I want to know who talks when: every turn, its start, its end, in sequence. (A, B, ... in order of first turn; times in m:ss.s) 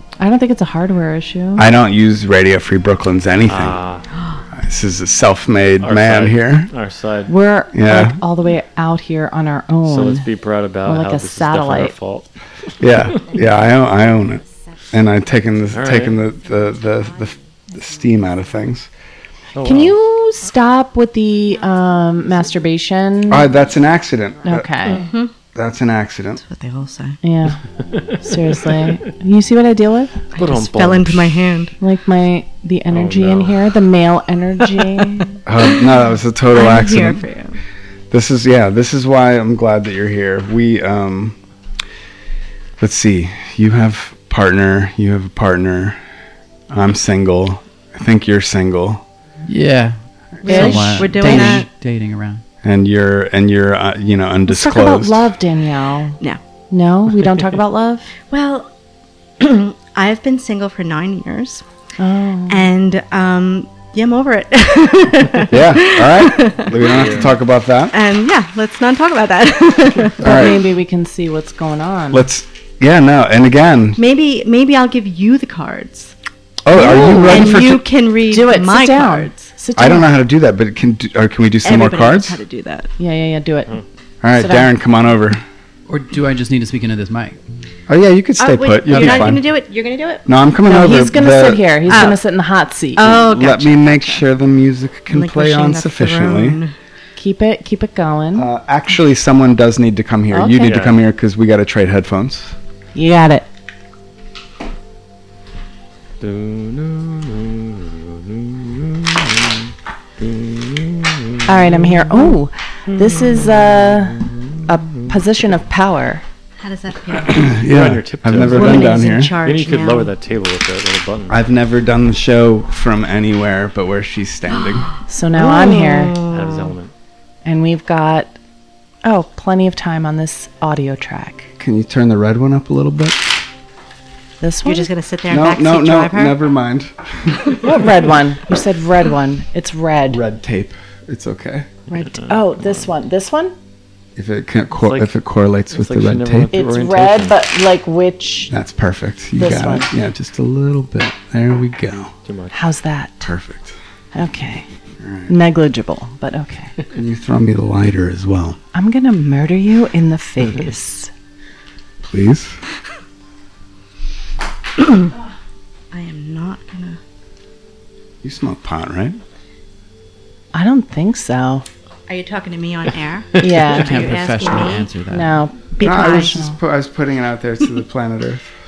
0:00.2-0:01.7 A
0:01.6-0:03.8 B
0:03.5-0:04.1 C
0:04.5-0:06.7 B
0:05.8-0:07.3 C
0:07.3-0:10.3 A
0:07.7-0:08.2 B
0:09.9-0:12.3 C
0:10.9-0:11.9 A
0:12.8-0:18.9 B
0:12.9-0:13.2 C
0:15.7-0:16.2 C
0:19.6-0:20.0 C
0:19.6-0:23.5 A
0:23.3-0:24.7 B
0:24.4-0:25.1 A
0:24.8-0:25.3 D
0:25.5-0:26.4 B
0:26.4-0:27.2 D
0:27.2-0:27.6 A
0:27.8-0:29.0 C
0:28.2-0:30.2 A
0:30.3-0:31.7 D
0:30.4-0:31.3 C
0:31.8-0:35.4 A
0:32.9-0:33.6 C
0:35.5-0:37.2 B
0:35.6-0:37.6 D
0:38.1-0:41.4 B
0:42.8-0:46.0 B
0:46.7-0:49.0 B
0:49.4-0:52.4 E
0:50.4-0:51.7 D
0:50.5-0:51.6 A
0:52.6-0:55.3 B
0:54.5-0:56.2 A
0:56.7-0:58.1 A
0:58.3-0:58.7 D
0:59.4-1:01.6 D
1:02.0-1:02.7 A
1:02.5-1:07.3 D
1:05.5-1:07.9 B
1:06.8-1:07.3 C
1:07.9-1:10.4 D
1:10.2-1:12.3 A
1:10.2-1:10.7 B
1:12.1-1:14.0 B
1:14.0-1:16.1 D
1:16.6-1:17.8 B
1:16.7-1:19.3 D
1:16.7-1:17.7 A
1:18.3-1:20.1 A
1:19.8-1:22.4 B
1:21.6-1:22.9 D
1:23.0-1:23.8 A
1:24.2-1:25.4 B
1:24.4-1:24.7 A
1:25.9-1:27.4 E
1:27.9-1:29.4 B
1:28.4-1:30.4 D
1:28.9-1:29.3 C
1:30.3-1:32.1 B
1:30.6-1:33.2 A
1:31.9-1:32.2 D
1:33.0-1:34.3 D
1:33.1-1:36.6 B
1:35.1-1:36.7 D
1:37.2-1:38.5 A
1:38.4-1:42.6 B
1:40.3-1:40.7 A
1:40.6-1:41.0 C
1:43.0-1:43.5 A
1:46.2-1:52.3 C
1:51.5-1:56.2 A
1:52.9-1:55.1 C
1:56.6-1:57.5 D
1:57.2-1:59.3 B
1:57.4-2:01.4 C
1:58.4-2:00.1 D
1:58.5-1:58.9 A
2:01.3-2:04.9 B
2:04.5-2:06.8 D
2:05.1-2:06.2 A
2:06.3-2:06.9 C
2:07.4-2:08.4 A
2:09.0-2:11.5 A
2:11.6-2:13.3 B
2:14.4-2:14.9 A
2:14.6-2:16.4 D
2:15.3-2:17.4 B
2:17.6-2:20.2 A
2:20.1-2:21.7 B
2:21.9-2:23.6 A
2:22.1-2:22.9 C
2:24.2-2:26.5 B
2:24.8-2:25.1 C
2:25.7-2:27.4 C
2:26.5-2:28.5 A
2:28.5-2:32.1 B
2:29.4-2:29.9 A
2:32.3-2:32.6 C
2:32.5-2:33.3 A
2:33.2-2:33.8 B
2:34.1-2:34.7 A
2:35.0-2:35.3 B
2:35.3-2:36.7 A
2:36.9-2:38.6 B
2:38.7-2:41.1 A
2:42.1-2:42.6 B
2:45.9-2:47.0 D
2:48.2-2:49.2 B
2:50.5-2:51.6 A
2:52.1-2:55.0 D
2:53.4-2:54.1 A
2:53.7-2:55.4 E
2:55.1-2:56.6 A
2:55.7-2:56.4 D
2:55.8-2:58.5 B